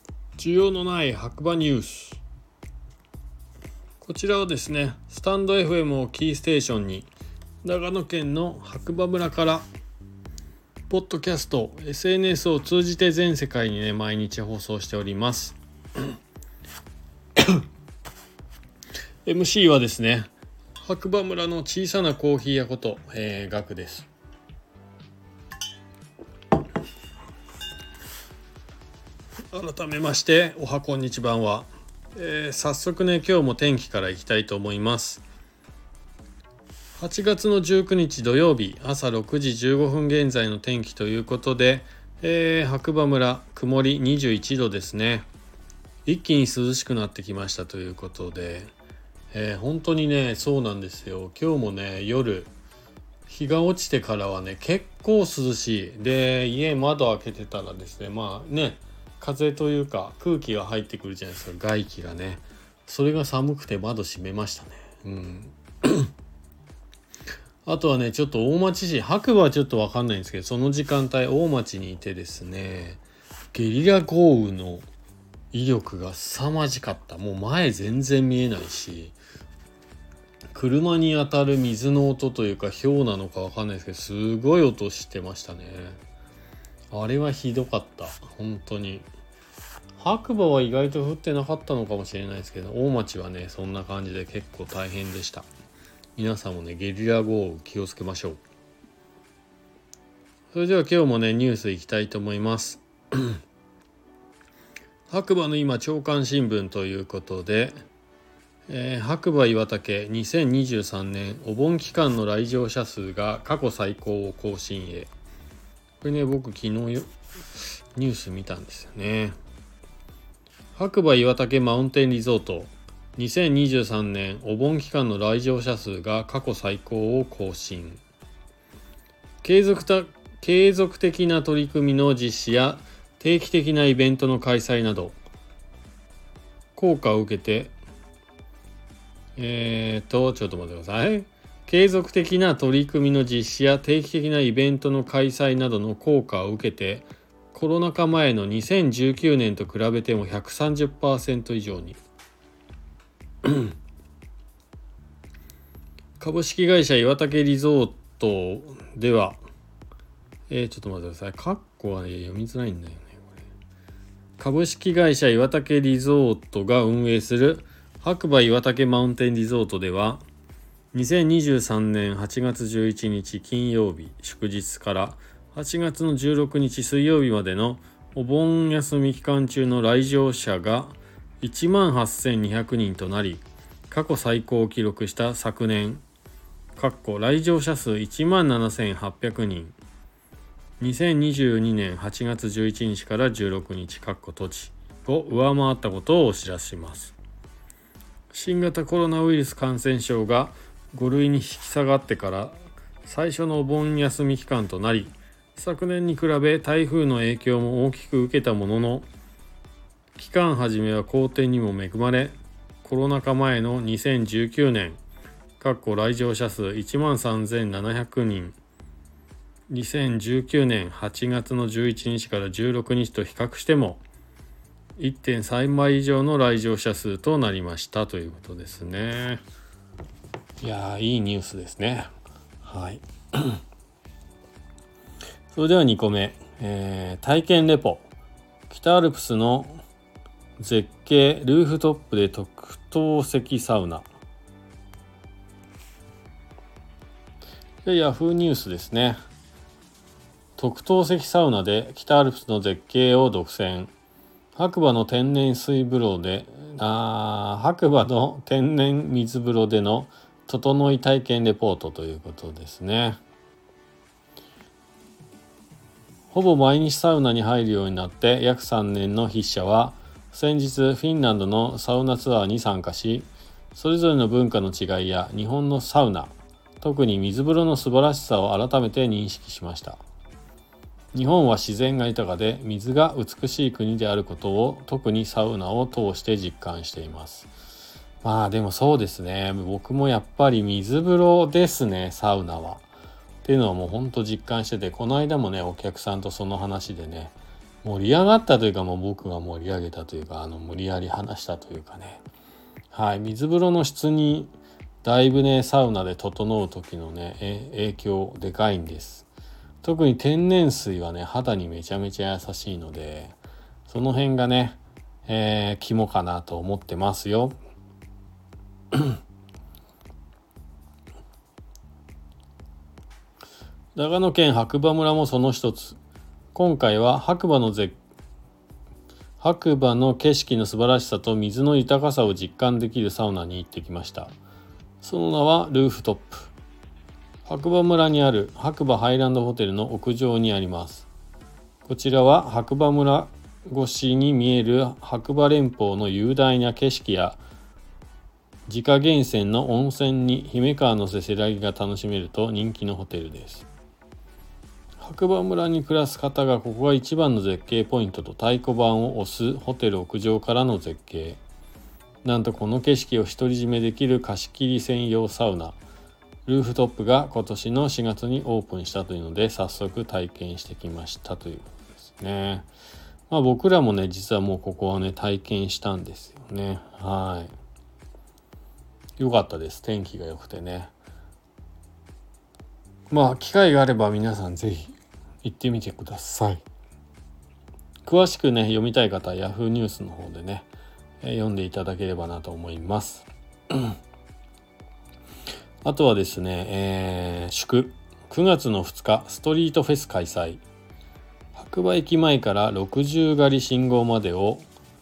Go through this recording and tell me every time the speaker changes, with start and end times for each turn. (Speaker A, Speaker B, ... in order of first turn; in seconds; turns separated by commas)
Speaker A: 0.4-2.2, Speaker A: 4.0-7.1, Speaker A: 7.6-9.7, Speaker A: 10.9-15.6, Speaker A: 19.2-24.1, Speaker A: 29.5-35.3, Speaker A: 37.0-45.3, Speaker A: 46.0-48.7, Speaker A: 49.3-52.5, Speaker A: 53.3-66.1, Speaker A: 67.7-73.0, Speaker A: 73.5-74.9, Speaker A: 75.5-79.2, Speaker A: 80.5-86.0, Speaker A: 86.9-89.1, Speaker A: 90.0-95.5, Speaker A: 96.2-98.4, Speaker A: 100.5-103.4, Speaker A: 105.1-107.8, Speaker A: 108.7-115.1, Speaker A: 116.0-117.1, Speaker A: 118.0-119.4, Speaker A: 120.8-128.0, Speaker A: 129.4-135.2, Speaker A: 136.8-137.8, Speaker A: 139.4-152.0, Speaker A: 153.4-153.7, Speaker A: 156.2-159.4, Speaker A: 160.5-163.4, Speaker A: 164.4-170.2, Speaker A: 170.9-186.0, Speaker A: 186.8-189.8, Speaker A: 190.8-197.2, Speaker A: 198.3-209.1, Speaker A: 210.2-215.0, Speaker A: 215.6-218.6, Speaker A: 219.7-224.0, Speaker A: 225.0-229.4, Speaker A: 230.6-232.1, Speaker A: 232.6-233.6, Speaker A: 235.5-238.1, Speaker A: 238.7-239.8, Speaker A: 240.6-244.1, Speaker A: 247.8-249.2, Speaker A: 250.6-253.9, Speaker A: 254.6-263.2, Speaker A: 266.3-280.0, Speaker A: 281.1-287.5, Speaker A: 288.2-292.9, Speaker A: 293.4-302.2, Speaker A: 302.9-304.5, Speaker A: 305.0-309.3, Speaker A: 309.8-317.6, Speaker A: 323.9-326.0, Speaker A: 326.5-328.0, Speaker A: 329.4-334.4, Speaker A: 335.0-336.5, Speaker A: 337.4-341.1, Speaker A: 341.9-347.4, Speaker A: 348.7-353.7, Speaker A: 355.0-361.4, Speaker A: 362.2-365.8, Speaker A: 366.5-372.7, Speaker A: 373.3-377.5, Speaker A: 379.2-380.9, Speaker A: 383.1-386.6, Speaker A: 388.0-390.7, Speaker A: 391.2-393.9, Speaker A: 395.8-400.6, Speaker A: 401.5-404.7